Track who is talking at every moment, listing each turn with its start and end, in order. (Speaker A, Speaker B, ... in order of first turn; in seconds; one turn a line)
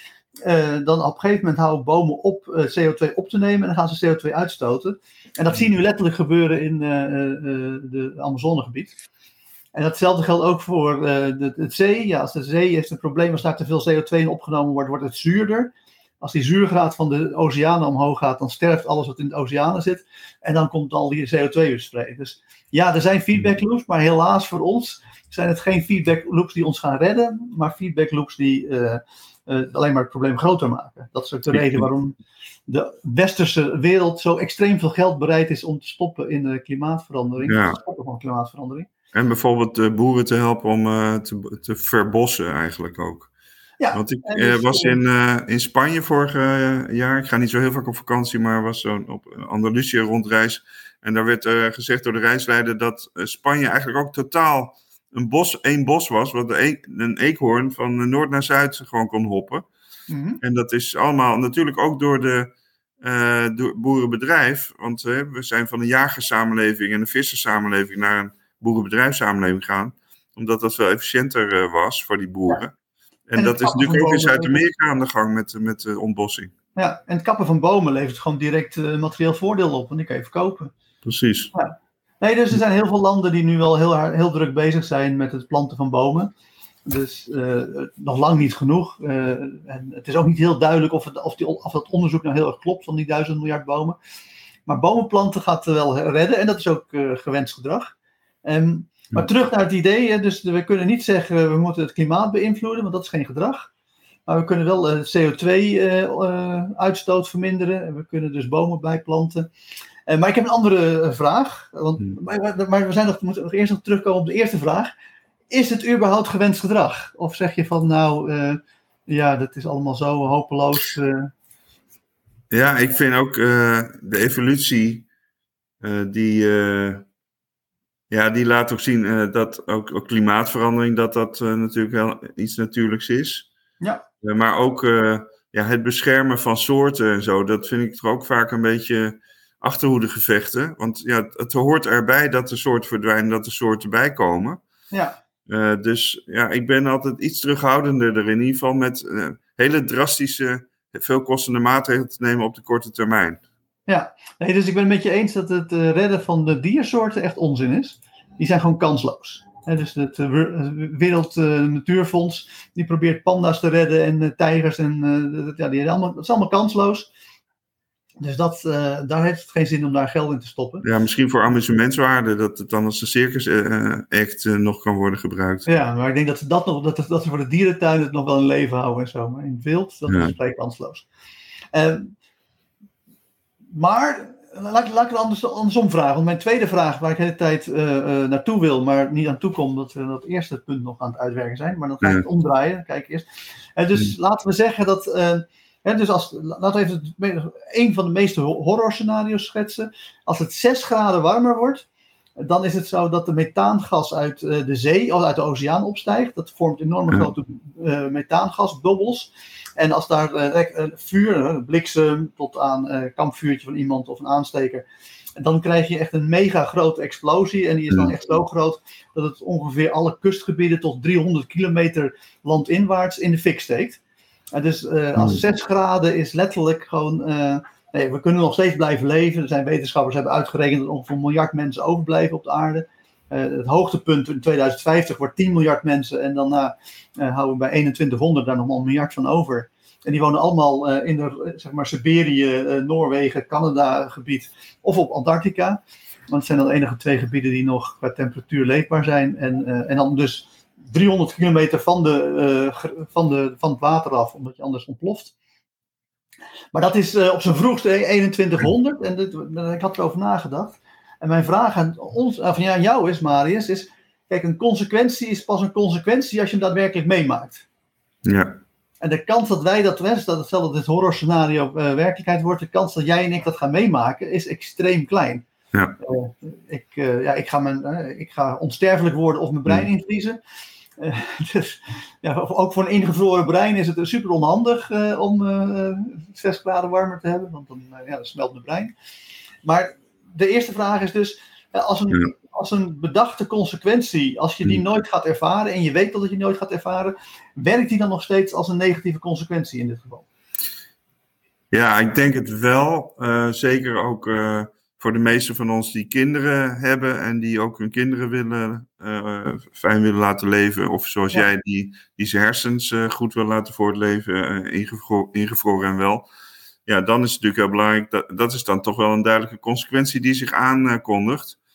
Speaker A: 0.4-8.9
Speaker A: 9.7-32.1
Speaker B: 31.5-31.9
Speaker A: 32.7-38.9
Speaker B: 37.5-37.8
Speaker B: 39.1-43.3
Speaker A: 43.8-45.0
Speaker B: 43.9-59.6
Speaker A: 60.1-60.4
Speaker B: 60.4-72.7
Speaker B: 73.3-76.5
Speaker A: 73.4-74.6
Speaker A: 76.7-80.7
Speaker B: 81.0-81.5
Speaker A: 81.5-86.3
Speaker A: 86.8-94.0
Speaker A: 94.7-103.7
Speaker A: 104.3-109.5
Speaker A: 110.1-114.9
Speaker A: 115.5-121.3
Speaker B: 122.5-125.0
Speaker B: 125.8-127.0
Speaker B: 128.1-133.5
Speaker A: 133.8-134.1
Speaker B: 134.2-144.6
Speaker A: 144.9-145.2
Speaker B: 145.5-153.4
Speaker A: 153.9-167.1
Speaker A: 168.2-170.8
Speaker B: 170.8-175.7
Speaker A: 175.7-181.1
Speaker B: 180.1-180.3
Speaker A: 181.7-182.1
Speaker A: 183.7-193.2
Speaker A: 193.8-201.8
Speaker A: 202.4-214.8
Speaker A: 215.4-224.0
Speaker A: 224.5-255.3
Speaker A: 256.7-267.6
Speaker B: 268.2-268.6
Speaker A: 269.0-275.4
Speaker A: 276.0-280.4
Speaker A: 281.0-288.9
Speaker A: 289.6-300.3
Speaker B: 301.7-316.3
Speaker B: 316.9-321.6